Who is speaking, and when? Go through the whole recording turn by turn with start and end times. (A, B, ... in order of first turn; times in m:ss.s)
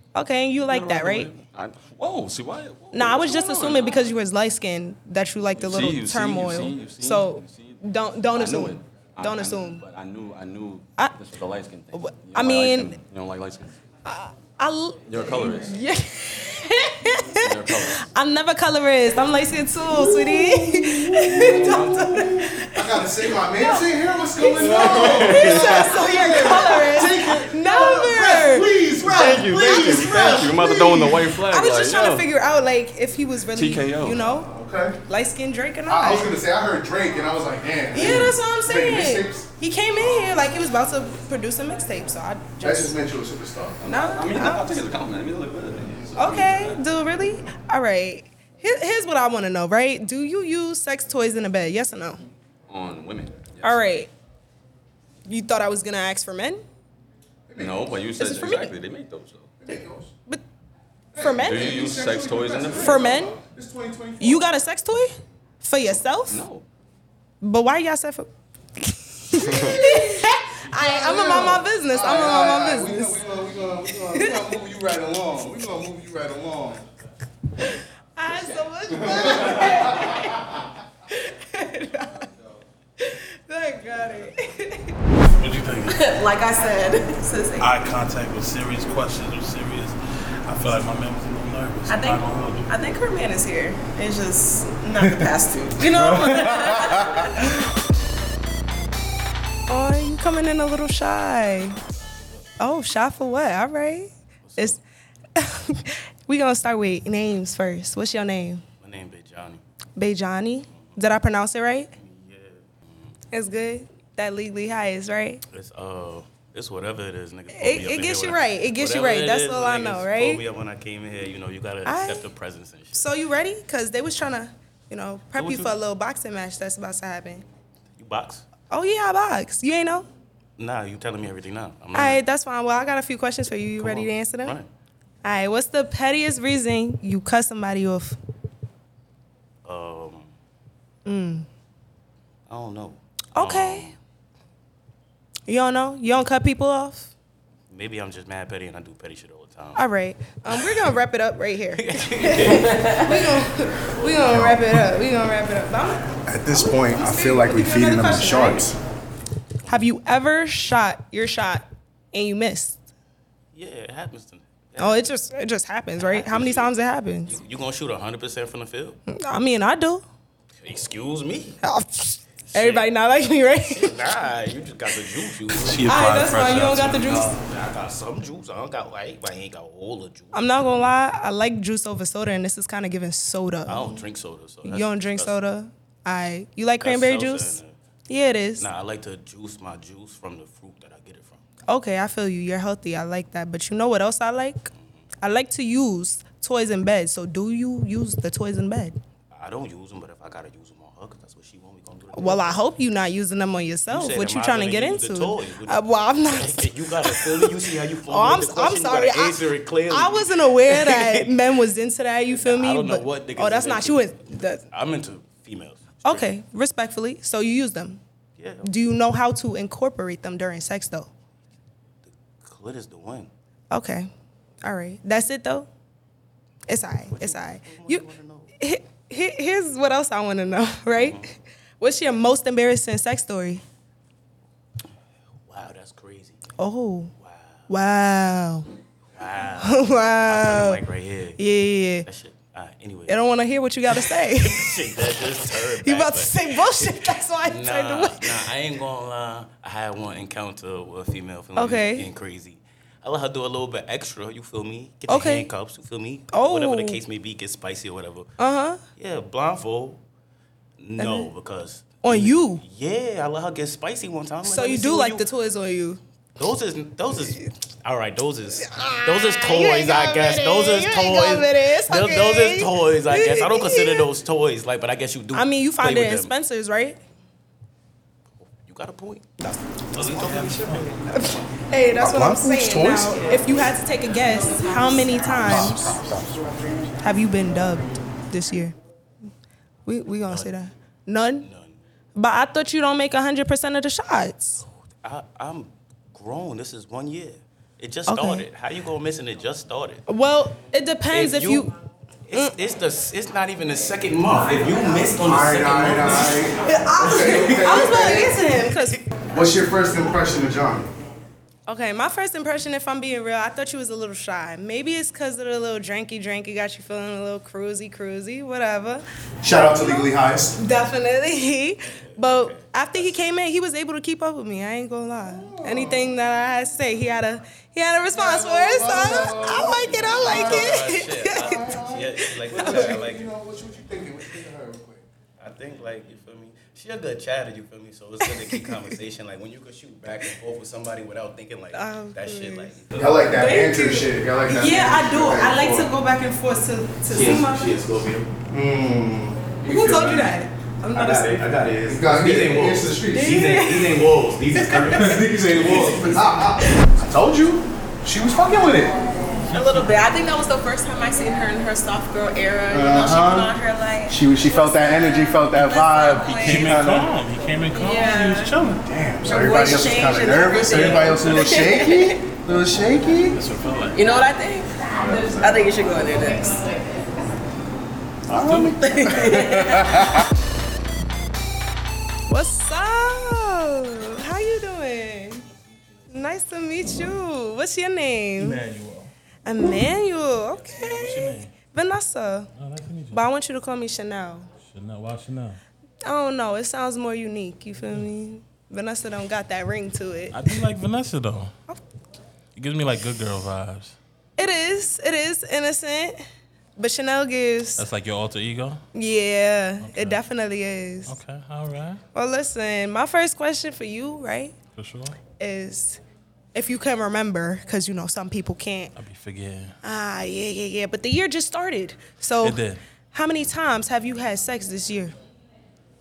0:00.1-0:01.3 A
0:00.6-0:04.0 B
0:02.9-0:09.8 A
0:05.6-0:13.8 B
0:11.9-0:13.0 A
0:14.0-0:23.1 A
0:15.0-0:15.7 B
0:17.3-0:18.1 B
0:19.9-0:30.5 C
0:21.3-0:22.2 B
0:23.6-0:23.8 A
0:24.4-0:34.5 A
0:24.5-0:26.0 B
0:29.0-0:32.3 B
0:33.5-0:34.3 B
0:34.5-0:35.0 C
0:35.1-0:36.3 A
0:35.9-0:39.4 C
0:37.9-0:43.0 A
0:37.9-0:38.3 B
0:42.6-0:43.8 C
0:43.8-0:46.8 B
0:43.8-0:44.8 A
0:46.2-0:52.2 A
0:52.7-0:53.8 B
0:53.6-0:54.1 A
0:55.3-0:56.6 A
0:57.5-0:57.9 C
0:57.6-0:59.5 B
0:58.2-0:58.7 A
0:59.6-1:00.1 C
1:01.1-1:04.4 C
1:01.2-1:01.8 A
1:01.4-1:03.4 B
1:02.7-1:03.3 A
1:04.2-1:06.4 A
1:06.3-1:06.6 B
1:07.4-1:13.2 A
1:09.4-1:16.8 C
1:09.4-1:09.7 B
1:13.9-1:14.6 A
1:18.2-1:20.4 A
1:19.0-1:20.1 C
1:21.1-1:22.3 A
1:23.0-1:24.9 A
1:25.4-1:26.1 D
1:25.9-1:27.8 E
1:27.6-1:32.7 D
1:31.9-1:37.3 E
1:35.8-1:37.2 C
1:39.7-1:41.8 A
1:42.6-1:44.8 A
1:44.4-1:44.8 F
1:45.4-1:48.6 A
1:48.8-1:49.6 F
1:50.0-1:51.9 A
1:50.7-1:51.0 F
1:51.9-1:53.2 F
1:53.3-1:55.4 A
1:55.5-2:03.1 F
1:57.5-2:00.4 A
2:01.8-2:02.2 A
2:02.9-2:07.4 A
2:05.4-2:05.7 F
2:08.0-2:08.4 F
2:08.7-2:10.1 A
2:10.6-2:12.2 F
2:11.9-2:14.6 A
2:13.8-2:14.7 F
2:15.2-2:18.2 A
2:19.6-2:20.3 F
2:21.0-2:21.5 A
2:22.5-2:24.0 F
2:23.3-2:23.9 A
2:25.5-2:27.1 A
2:27.7-2:29.8 F
2:29.8-2:38.6 A
2:30.5-2:30.7 F
2:31.7-2:34.5 F
2:34.3-2:34.8 C
2:36.2-2:38.8 C
2:39.7-2:42.8 A
2:43.5-2:45.1 F
2:44.8-2:47.4 A
2:46.0-2:46.7 F
2:47.2-2:49.0 F
2:49.1-2:50.0 A
2:50.6-2:51.6 F
2:51.6-2:54.0 A
2:52.5-2:52.9 F
2:53.7-2:56.3 F
2:55.6-2:57.4 D
2:55.9-2:57.3 A
2:56.9-3:00.8 F
3:00.3-3:04.0 A
3:03.6-3:05.4 F
3:04.6-3:08.6 A
3:06.8-3:07.8 F
3:08.6-3:11.4 F
3:11.7-3:14.7 A
3:14.7-3:15.1 F
3:15.2-3:19.0 A
3:19.3-3:22.6 F
3:22.1-3:27.5 A
3:23.9-3:31.4 F
3:28.1-3:34.6 A
3:32.3-3:36.3 F
3:36.0-3:38.0 A
3:38.4-3:38.7 F
3:38.6-3:41.1 A
3:42.0-3:43.3 F
3:43.7-3:44.1 A
3:44.6-3:45.7 A
3:46.7-3:48.0 A
3:47.0-3:48.5 F
3:48.6-3:53.6 A
3:51.0-3:51.3 F
3:55.4-3:56.4 F
3:56.6-3:57.1 A
3:57.2-3:57.7 F
3:57.7-3:58.7 A
3:59.1-4:01.4 F
3:59.6-4:00.8 A
4:01.4-4:02.1 A
4:02.0-4:03.2 F
4:03.1-4:04.9 A
4:03.9-4:18.3 F
4:05.8-4:08.4 A
4:11.6-4:12.1 A
4:15.1-4:15.5 A
4:16.3-4:17.0 A
4:18.4-4:18.8 A
4:19.0-4:20.0 F
4:20.8-4:25.3 F
4:21.0-4:21.3 A
4:22.0-4:22.6 A
4:24.4-4:26.0 A
4:26.4-4:36.3 F
4:28.7-4:34.1 A
4:35.3-4:37.0 A
4:38.4-4:41.2 F
4:39.9-4:41.0 D
4:41.1-4:45.9 A
4:42.0-4:43.3 C
4:44.5-4:45.4 E
4:45.4-4:46.4 C
4:47.0-4:48.7 A
4:49.8-4:51.5 A
4:50.3-4:50.5 F
4:51.4-4:51.8 F
4:52.1-4:54.6 A
4:54.6-5:00.0 F
4:58.1-4:58.4 A
5:00.1-5:01.7 A
5:01.1-5:01.7 F
5:02.3-5:09.0 F
5:05.2-5:08.3 C
5:06.6-5:09.0 A
5:09.3-5:10.9 C
5:11.7-5:31.7 A
5:19.4-5:20.6 C
5:22.0-5:23.1 F
5:25.2-5:26.1 C
5:28.1-5:35.0 C
5:30.2-5:33.3 F
5:32.2-5:33.0 A
5:35.4-5:43.4 F
5:38.2-5:38.9 A
5:41.7-5:42.8 A
5:43.0-5:45.9 C
5:43.3-5:47.7 A
5:47.1-5:48.3 F
5:48.5-5:50.3 C
5:49.6-5:51.4 A
5:50.9-5:56.5 F
5:51.9-5:53.6 C
5:53.1-5:54.0 A
5:54.9-5:59.0 C
5:59.5-5:59.9 D
5:59.5-6:06.8 E
6:02.7-6:03.5 C
6:04.1-6:07.1 C
6:06.2-6:08.8 D
6:07.7-6:08.5 E
6:08.8-6:13.4 C
6:09.2-6:12.2 E
6:13.1-6:14.0 D
6:13.9-6:17.0 E
6:15.0-6:15.4 C
6:18.3-6:20.2 C
6:18.4-6:18.7 D
6:18.7-6:20.1 E
6:22.3-6:25.4 A
6:26.1-6:28.6 A
6:28.4-6:29.1 D
6:29.4-6:32.5 A
6:30.8-6:31.5 D
6:32.6-6:33.2 D
6:33.1-6:34.5 A
6:34.6-6:35.6 D
6:36.0-6:40.6 A
6:40.3-6:41.5 D
6:42.6-6:44.0 D
6:44.4-6:46.2 A
6:46.8-6:47.8 A
6:47.8-6:48.8 D
6:48.9-6:51.2 A
6:49.8-6:50.2 D
6:51.1-6:52.0 D
6:52.1-6:54.6 A
6:54.7-6:55.2 D
6:55.4-6:56.0 A
6:56.5-6:58.9 A
6:58.9-6:59.7 D
6:59.8-7:02.6 A
7:02.4-7:02.8 D
7:03.1-7:05.1 A